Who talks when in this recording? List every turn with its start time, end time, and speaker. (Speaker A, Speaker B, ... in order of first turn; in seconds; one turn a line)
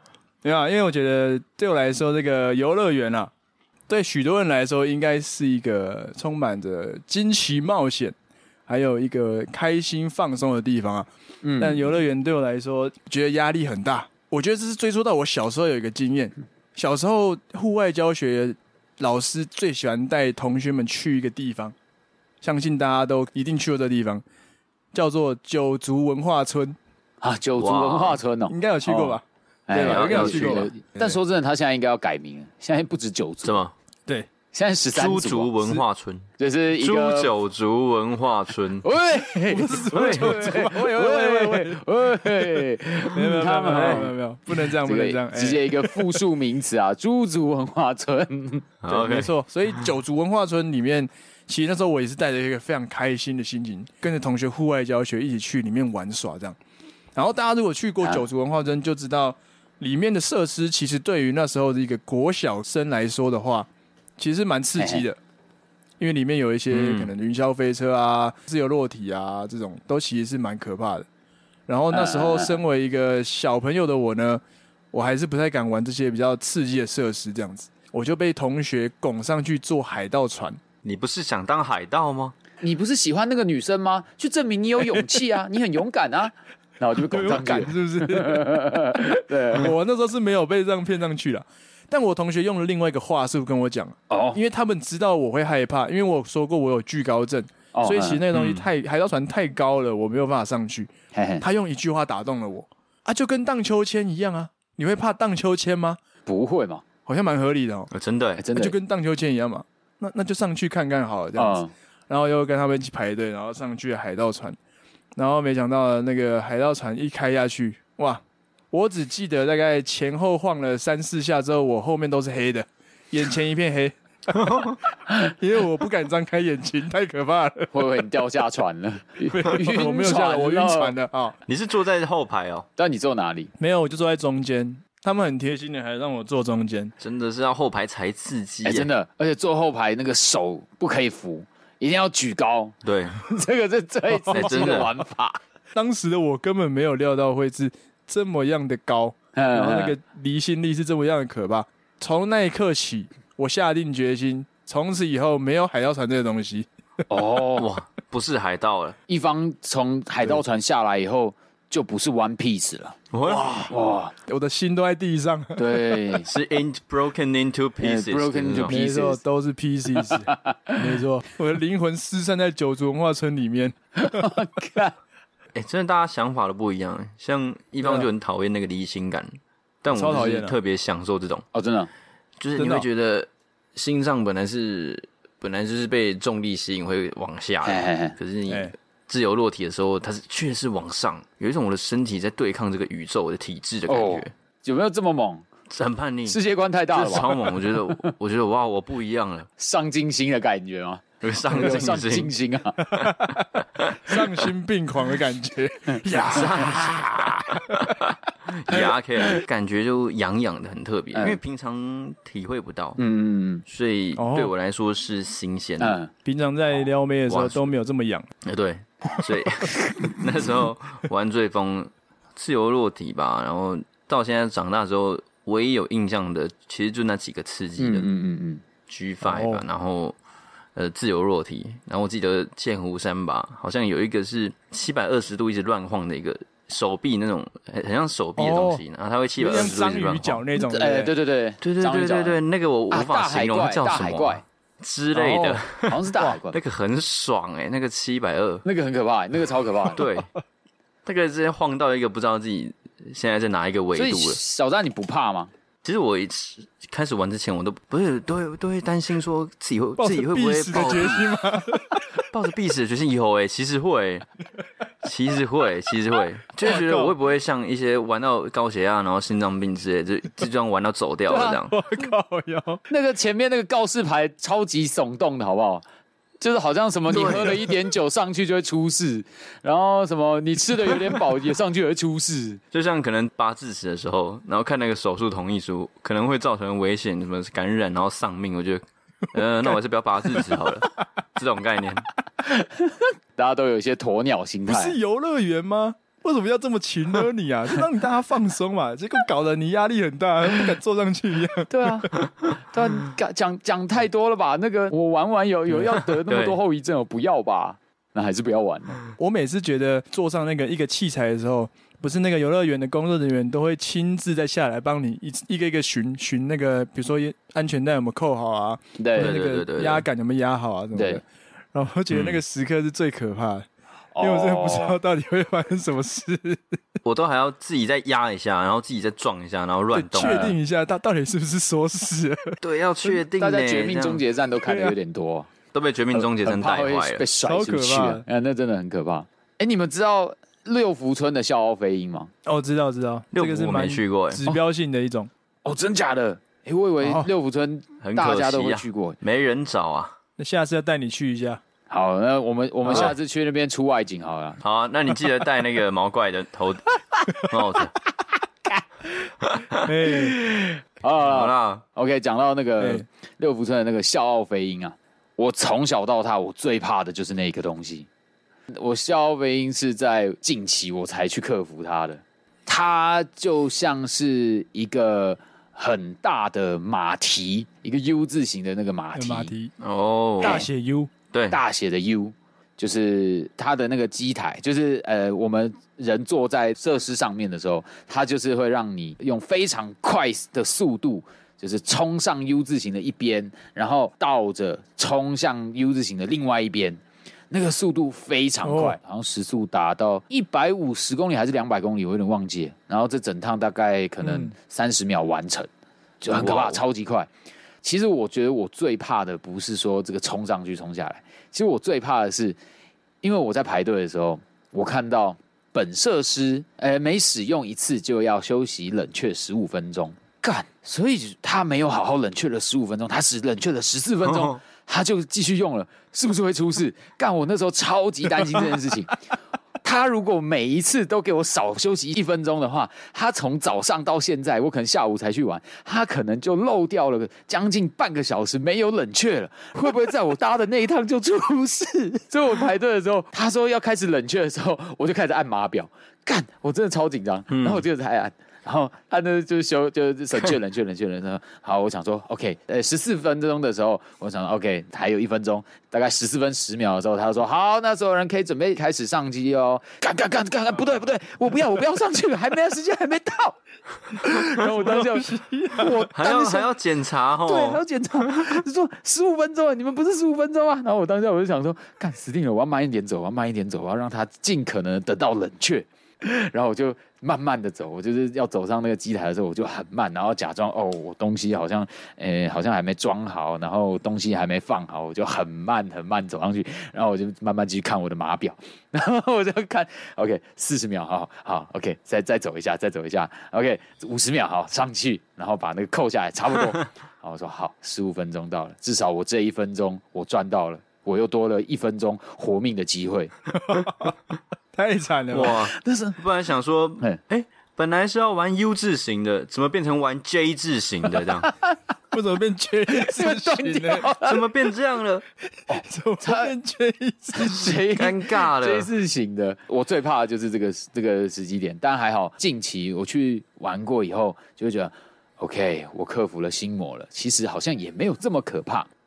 Speaker A: 0.4-3.3
Speaker A: 3.9-8.2
Speaker A: 8.7-21.8
Speaker B: 11.4-11.9
Speaker A: 22.4-24.2
Speaker A: 24.9-26.8
Speaker B: 27.2-33.6
Speaker C: 27.6-28.2
Speaker A: 28.5-31.2
Speaker C: 29.8-30.7
Speaker C: 33.4-33.7
Speaker B: 34.5-35.8
Speaker C: 34.9-36.3
Speaker B: 36.4-37.3
Speaker C: 36.8-38.9
Speaker B: 38.8-48.7
Speaker A: 39.5-46.2
Speaker C: 40.0-40.3
Speaker C: 48.8-49.3
Speaker A: 48.9-56.6
Speaker A: 57.1-65.2
Speaker B: 64.8-65.0
Speaker A: 66.0-71.1
Speaker C: 66.7-67.1
Speaker A: 71.7-80.6
Speaker B: 71.9-72.6
Speaker C: 80.8-82.3
Speaker B: 82.6-89.7
Speaker A: 87.1-89.0
Speaker A: 89.5-106.0
Speaker B: 94.1-94.4
Speaker B: 97.7-98.2
Speaker C: 98.3-98.7
Speaker B: 101.1-101.4
Speaker B: 106.3-106.8
Speaker A: 107.1-107.9
Speaker C: 107.9-108.4
Speaker B: 108.4-108.8
Speaker A: 108.5-114.6
Speaker B: 111.4-111.7
Speaker A: 115.2-124.4
Speaker C: 124.3-124.8
Speaker A: 125.2-127.7
Speaker B: 127.7-130.9
Speaker A: 129.3-131.4
Speaker C: 131.5-132.7
Speaker B: 132.8-133.5
Speaker A: 133.6-136.9
Speaker C: 137.0-138.9
Speaker B: 138.7-145.4
Speaker C: 142.8-143.2
Speaker A: 144.1-144.9
Speaker C: 144.3-144.9
Speaker A: 145.7-156.7
Speaker B: 149.4-149.9
Speaker B: 157.1-157.7
Speaker C: 157.6-159.0
Speaker B: 159.1-164.1
Speaker C: 163.1-163.7
Speaker A: 164.3-165.7
Speaker B: 165.6-166.3
Speaker C: 166.2-168.8
Speaker B: 167.8-169.2
Speaker A: 168.6-174.2
Speaker B: 170.0-170.8
Speaker B: 174.0-174.9
Speaker C: 175.6-181.4
Speaker A: 177.8-178.1
Speaker A: 179.9-180.6
Speaker B: 181.5-181.9
Speaker C: 182.4-194.3
Speaker A: 182.6-182.9
Speaker B: 187.7-188.2
Speaker A: 188.5-188.7
Speaker B: 193.9-195.4
Speaker C: 195.7-196.4
Speaker B: 196.3-198.1
Speaker C: 196.9-199.5
Speaker B: 199.6-202.9
Speaker C: 201.2-202.3
Speaker A: 202.9-203.5
Speaker C: 203.0-204.0
Speaker A: 204.0-206.7
Speaker B: 205.9-207.5
Speaker C: 206.2-213.0
Speaker B: 211.1-211.4
Speaker B: 213.0-213.6
Speaker C: 213.7-216.0
Speaker A: 214.2-214.5
Speaker B: 215.8-216.1
Speaker A: 216.2-218.3
Speaker C: 217.3-217.7
Speaker C: 218.4-228.1
Speaker B: 227.8-228.6
Speaker C: 228.9-230.2
Speaker A: 229.2-229.6
Speaker C: 230.8-240.4
Speaker A: 238.4-238.8
Speaker A: 239.4-241.1
Speaker B: 240.6-242.4
Speaker C: 241.6-248.6
Speaker B: 242.9-244.4
Speaker A: 245.1-245.7
Speaker B: 245.8-246.6
Speaker B: 248.6-250.0
Speaker C: 249.9-250.3
Speaker C: 251.1-254.4
Speaker B: 253.9-255.5
Speaker C: 255.8-261.3
Speaker A: 260.0-262.0
Speaker C: 262.3-264.2
Speaker C: 265.0-271.8
Speaker A: 266.6-267.1
Speaker A: 271.3-272.8
Speaker B: 272.9-275.8
Speaker B: 276.4-282.6
Speaker C: 277.1-277.6
Speaker C: 282.7-292.1
Speaker B: 292.5-295.0
Speaker A: 294.7-302.1
Speaker B: 301.7-309.0
Speaker C: 306.3-306.6
Speaker A: 309.2-323.7
Speaker B: 319.0-319.3
Speaker C: 319.2-320.1
Speaker B: 320.9-321.2
Speaker C: 322.1-322.4
Speaker B: 324.1-325.0
Speaker A: 324.2-326.8
Speaker C: 327.1-330.6
Speaker A: 329.9-333.2
Speaker C: 332.6-334.2
Speaker B: 333.4-335.5
Speaker A: 334.7-335.0
Speaker C: 335.7-337.2
Speaker B: 336.2-342.3
Speaker A: 337.4-338.2
Speaker A: 342.4-345.3
Speaker C: 343.3-344.6
Speaker B: 345.6-349.2
Speaker A: 347.0-347.3
Speaker C: 348.0-350.2
Speaker A: 350.4-351.6
Speaker B: 351.9-354.6
Speaker C: 354.6-357.9
Speaker C: 359.4-359.9
Speaker A: 359.8-360.4
Speaker B: 360.1-368.1
Speaker C: 361.2-361.8
Speaker A: 362.8-363.1
Speaker B: 368.7-379.5
Speaker A: 379.1-379.7
Speaker C: 379.8-380.7
Speaker A: 380.4-381.1
Speaker C: 381.3-381.6
Speaker B: 381.5-405.7
Speaker A: 398.6-399.0
Speaker A: 404.2-404.5
Speaker B: 406.2-407.3
Speaker C: 406.4-406.8
Speaker B: 407.8-412.6
Speaker B: 413.2-429.2
Speaker C: 424.3-424.6
Speaker B: 429.8-463.6
Speaker C: 447.5-447.8
Speaker B: 464.2-466.7
Speaker A: 464.3-466.0
Speaker C: 466.1-468.6
Speaker B: 467.4-503.3
Speaker A: 503.6-504.1
Speaker A: 504.7-505.6
Speaker C: 505.3-511.5
Speaker B: 505.7-506.2
Speaker B: 511.4-511.8
Speaker A: 512.1-514.1
Speaker B: 513.0-514.4
Speaker C: 514.2-515.3
Speaker B: 515.7-516.5
Speaker A: 515.8-517.9
Speaker B: 517.3-528.9
Speaker C: 518.0-518.9